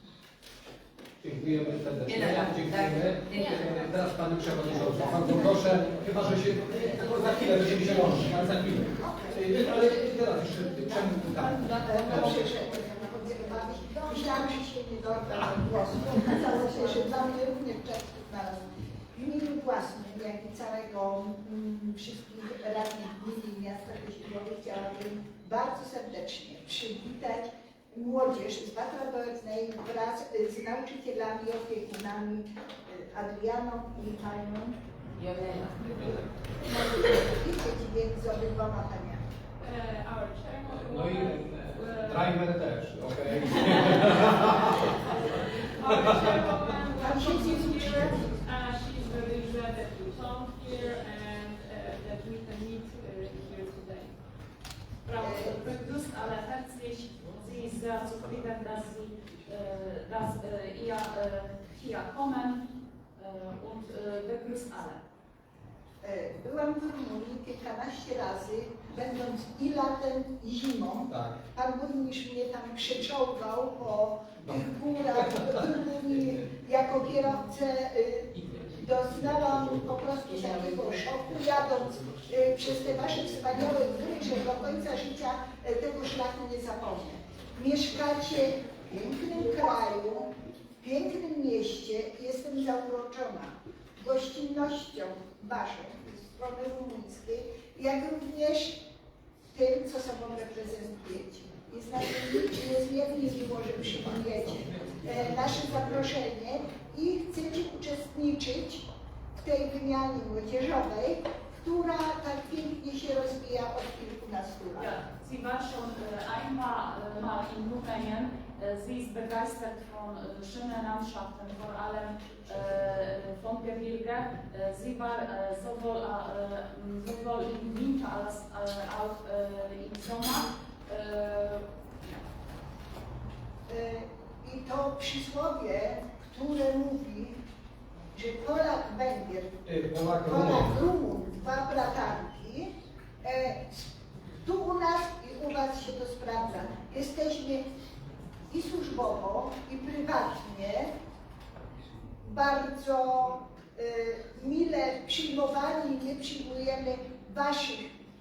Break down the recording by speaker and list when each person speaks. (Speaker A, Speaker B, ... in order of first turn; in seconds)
Speaker A: 1.2-12.4, 40.7-44.9, 45.8-46.4, 71.1-71.4, 139.7-140.7
Speaker B: 2.0-3.9, 35.1-36.2
Speaker C: 9.0-9.4, 11.8-34.8, 36.6-39.2, 47.0-48.2, 55.2-55.6, 66.0-90.3, 90.8-98.8, 99.5-114.9, 133.7-137.4, 138.1-139.6, 140.2-142.7, 143.2-143.9, 144.4-147.7, 148.5-150.9, 152.2-157.9
Speaker D: 39.6-42.3, 44.7-54.2, 55.0-55.3
Speaker E: 47.1-47.6, 55.2-65.0, 114.8-132.2